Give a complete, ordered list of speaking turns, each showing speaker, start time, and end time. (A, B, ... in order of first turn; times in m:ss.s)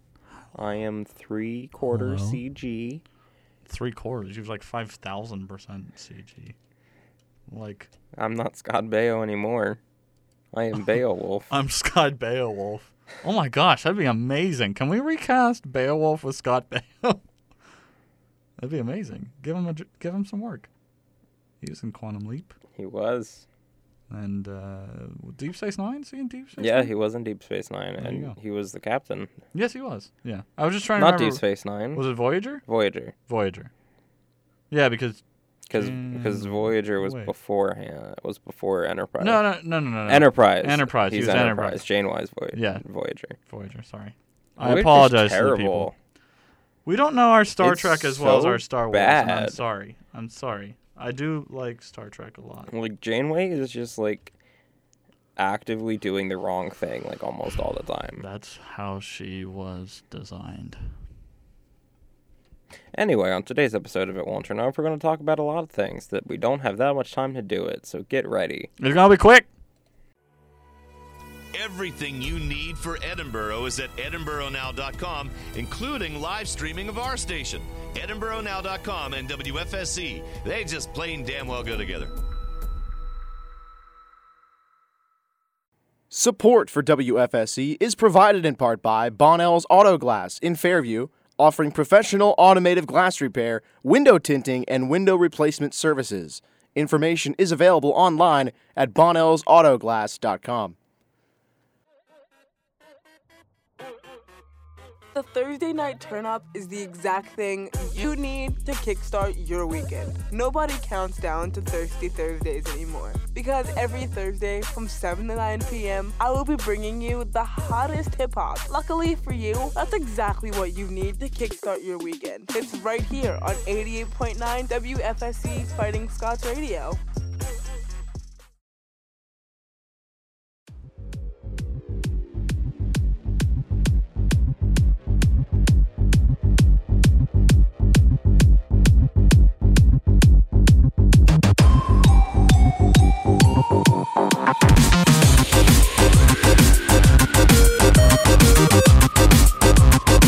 0:00.5-0:03.0 A
0:01.9-0:02.4 B
0:03.7-0:06.5 B
0:07.5-0:07.9 B
0:08.2-0:09.8 A
0:10.5-0:11.5 A
0:11.5-0:17.2 B
0:18.6-0:20.7 B
0:21.6-0:22.6 B
0:22.8-0:23.4 A
0:24.1-0:26.9 B
0:26.6-0:29.3 A
0:28.0-0:28.4 B
0:29.5-0:32.6 B
0:31.0-0:32.0 A
0:32.6-0:33.1 A
0:33.3-0:33.7 B
0:34.7-0:37.3 B
0:35.7-0:39.4 A
0:39.2-0:41.8 B
0:40.1-0:43.3 A
0:42.5-0:42.8 B
0:43.4-0:45.9 B
0:44.6-0:45.9 A
0:46.8-0:52.7 B
0:47.6-0:49.6 A
0:52.7-0:54.3 A
0:55.4-0:58.2 A
0:58.2-1:00.8 B
1:02.9-1:08.7 A
1:08.8-1:09.5 B
1:11.5-1:22.1 C
1:26.1-1:40.8 D
1:45.1-2:07.0 E